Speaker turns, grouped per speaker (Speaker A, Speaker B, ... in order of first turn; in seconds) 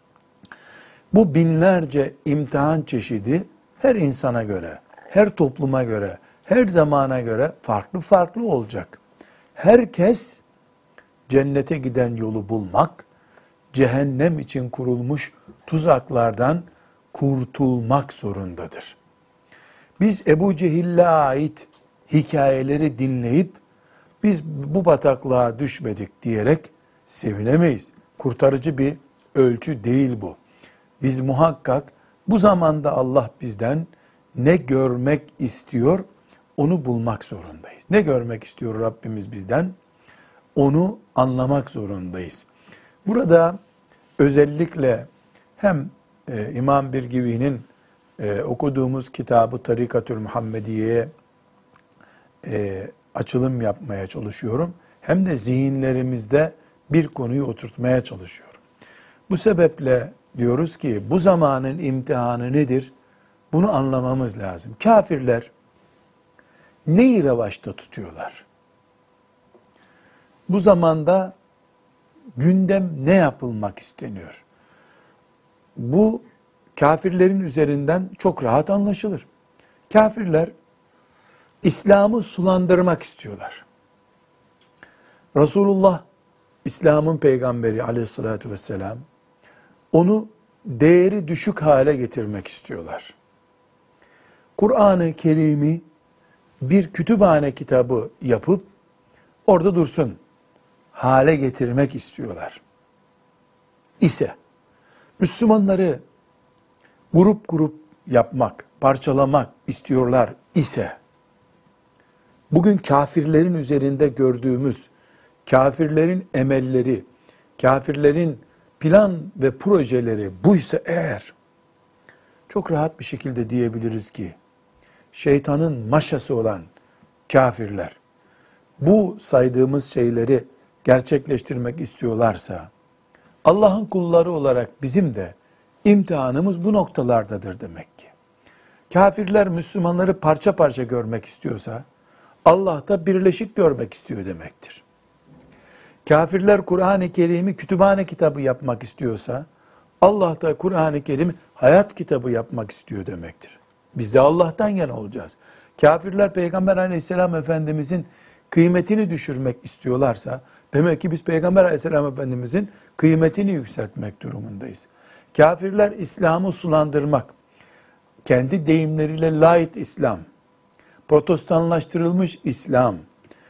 Speaker A: 1.1-9.0, 9.6-10.4, 11.3-13.0, 13.7-18.9, 20.0-23.6, 24.2-30.4, 31.0-36.0, 36.6-39.7, 40.5-42.5, 43.0-43.6, 44.2-47.7, 48.2-51.1, 52.4-58.6, 59.3-62.9, 63.5-65.5, 66.8-68.4, 70.5-71.3, 72.4-74.4, 75.8-76.2, 76.8-79.3, 79.9-80.5, 81.6-83.6, 85.3-86.0, 86.6-89.0, 89.9-93.1, 94.5-95.8, 96.6-98.7, 99.5-100.2, 100.9-102.6, 104.0-104.3, 105.2-106.0, 107.1-110.9, 112.5-114.9, 115.4-117.1, 117.6-121.3, 122.5-124.3, 125.1-126.7, 127.3-128.0, 128.8-132.7, 133.4-138.1, 138.9-141.8, 142.4-144.8, 146.0-149.4, 150.0-167.3, 168.2-170.2, 171.1-173.0